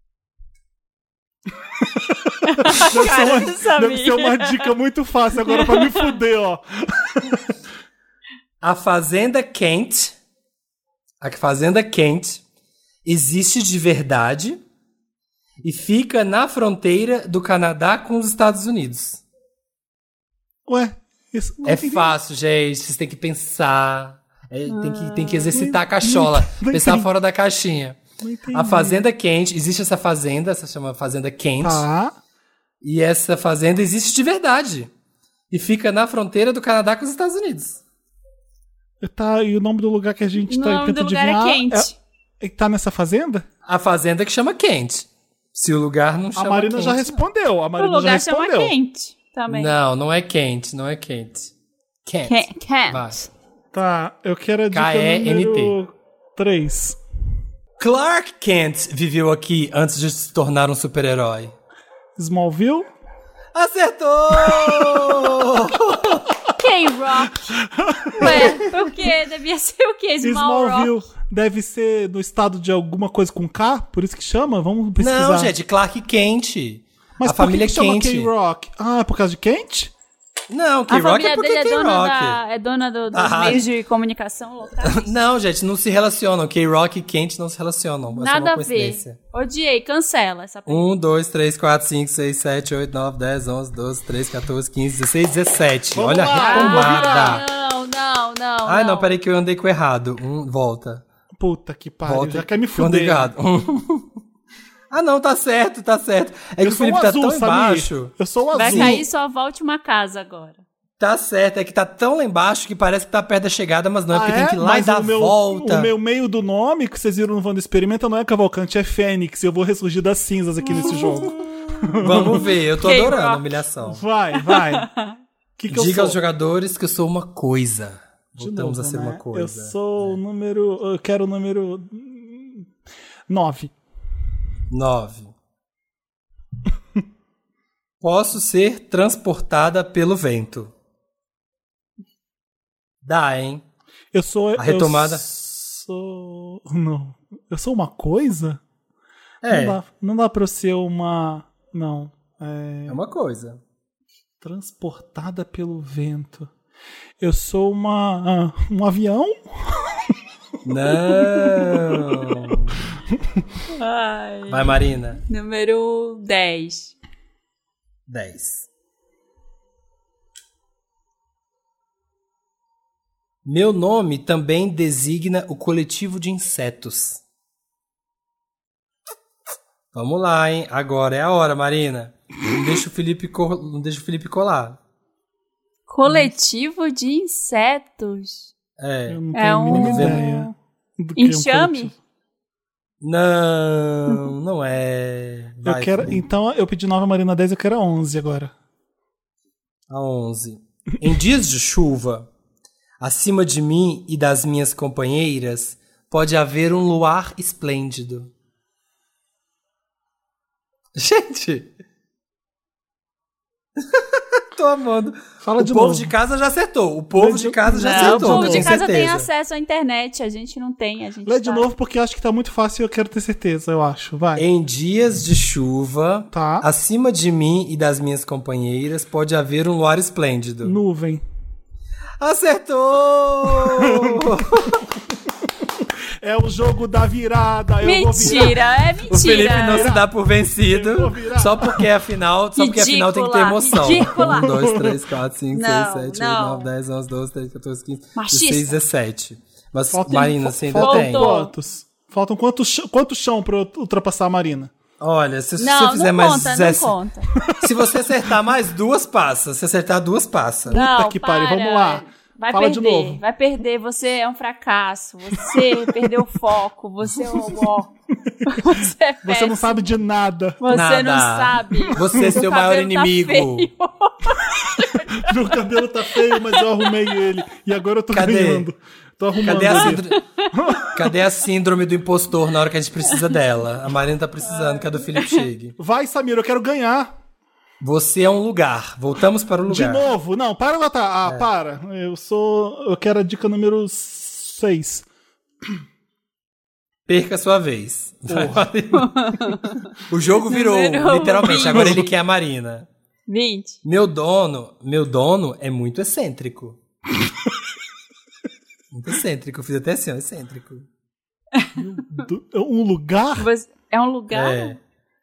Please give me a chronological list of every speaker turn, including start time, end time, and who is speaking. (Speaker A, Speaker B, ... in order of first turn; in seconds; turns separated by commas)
Speaker A: 2.4-4.7, Speaker B: 2.6-7.5, Speaker A: 5.5-6.1, Speaker C: 8.6-10.2, Speaker C: 11.2-12.4, Speaker C: 13.1-14.6, Speaker C: 15.6-19.2, Speaker B: 20.7-22.1, Speaker C: 21.6-28.0, Speaker A: 24.7-25.5, Speaker B: 25.5-27.1, Speaker B: 28.2-29.0, Speaker C: 28.5-31.9, Speaker B: 31.6-32.2, Speaker C: 32.8-34.9, Speaker C: 35.5-37.8, Speaker B: 39.0-41.9, Speaker A: 40.5-41.9, Speaker B: 42.4-43.5, Speaker C: 43.6-47.2, Speaker B: 46.4-48.7, Speaker A: 47.8-49.7, Speaker C: 49.5-51.5, Speaker C: 52.0-53.2, Speaker A: 52.2-53.3, Speaker B: 53.7-57.0, Speaker C: 54.7-55.8, Speaker C: 57.8-61.5, Speaker B: 62.2-62.9, Speaker C: 63.5-66.3, Speaker B: 64.5-65.0, Speaker A: 66.6-67.6, Speaker B: 67.6-68.6, Speaker A: 68.2-70.9, Speaker C: 68.2-68.6, Speaker B: 70.2-75.5, Speaker C: 75.0-78.3, Speaker B: 77.2-79.9, Speaker C: 80.5-82.4, Speaker A: 80.9-85.1, Speaker C: 83.1-83.7, Speaker C: 84.8-89.2, Speaker A: 88.1-90.9, Speaker C: 90.7-97.4, Speaker B: 95.9-97.4, Speaker A: 96.4-99.1, Speaker C: 98.6-101.0, Speaker B: 101.4-103.3, Speaker C: 102.0-104.1, Speaker C: 104.9-109.0, Speaker B: 106.6-109.0, Speaker A: 108.5-110.6, Speaker C: 111.0-115.9, Speaker B: 114.1-122.5, Speaker A: 120.8-121.1, Speaker C: 122.0-124.0, Speaker A: 122.8-123.4, Speaker B: 123.8-124.9, Speaker A: 124.3-125.2, Speaker B: 125.6-126.2, Speaker C: 125.7-130.2, Speaker B: 128.4-132.7, Speaker B: 133.3-133.7, Speaker C: 134.7-135.3, Speaker C: 138.0-140.7, Speaker C: 143.0-143.6, Speaker B: 144.1-148.6, Speaker C: 144.6-145.2, Speaker C: 149.4-149.8, Speaker B: 149.5-153.0, Speaker C: 152.9-153.6, Speaker B: 154.4-156.5, Speaker B: 157.2-160.1, Speaker C: 160.6-162.8, Speaker A: 163.7-164.7, Speaker C: 164.5-165.2, Speaker A: 165.3-166.9, Speaker C: 168.1-168.7, Speaker C: 173.4-177.2, Speaker C: 179.9-184.8, Speaker A: 185.9-188.5, Speaker C: 188.8-190.2, Speaker B: 189.1-192.0, Speaker A: 189.3-190.5, Speaker A: 191.2-191.9, Speaker C: 193.0-196.2, Speaker B: 195.6-198.5, Speaker C: 199.9-202.3, Speaker C: 203.0-208.3, Speaker C: 210.9-211.7, Speaker C: 213.8-219.3, Speaker B: 215.4-216.1, Speaker B: 217.1-218.8, Speaker A: 217.8-221.7, Speaker B: 221.2-224.4, Speaker C: 224.4-230.8, Speaker B: 226.3-226.7, Speaker B: 230.6-231.2, Speaker C: 232.2-234.8, Speaker B: 233.6-234.3, Speaker B: 236.2-241.8, Speaker A: 237.8-239.9, Speaker C: 239.1-251.3, Speaker A: 242.6-244.6, Speaker B: 244.2-245.0, Speaker A: 245.5-246.7, Speaker A: 248.1-248.8, Speaker B: 249.9-254.7, Speaker A: 250.8-251.5, Speaker C: 255.0-256.9, Speaker A: 255.6-257.3, Speaker B: 257.4-257.7, Speaker C: 257.6-260.8, Speaker B: 260.7-263.2, Speaker A: 260.7-267.9, Speaker B: 265.5-265.9, Speaker A: 268.4-269.8, Speaker B: 269.2-270.6, Speaker A: 270.6-275.5, Speaker C: 270.7-273.7, Speaker B: 272.0-272.4, Speaker B: 275.2-281.1, Speaker A: 276.1-276.9, Speaker C: 278.1-278.7, Speaker C: 279.4-280.2, Speaker A: 279.8-280.5, Speaker C: 280.9-285.8, Speaker A: 284.4-285.4, Speaker B: 285.8-287.1, Speaker C: 287.8-290.1, Speaker B: 289.7-295.1, Speaker C: 297.1-299.3, Speaker B: 298.3-298.7, Speaker A: 298.9-299.9, Speaker C: 300.0-302.9, Speaker A: 300.5-302.1, Speaker A: 303.3-303.8, Speaker C: 303.8-306.8, Speaker C: 308.9-310.9, Speaker B: 311.8-313.5, Speaker A: 313.4-314.8, Speaker C: 314.3-314.8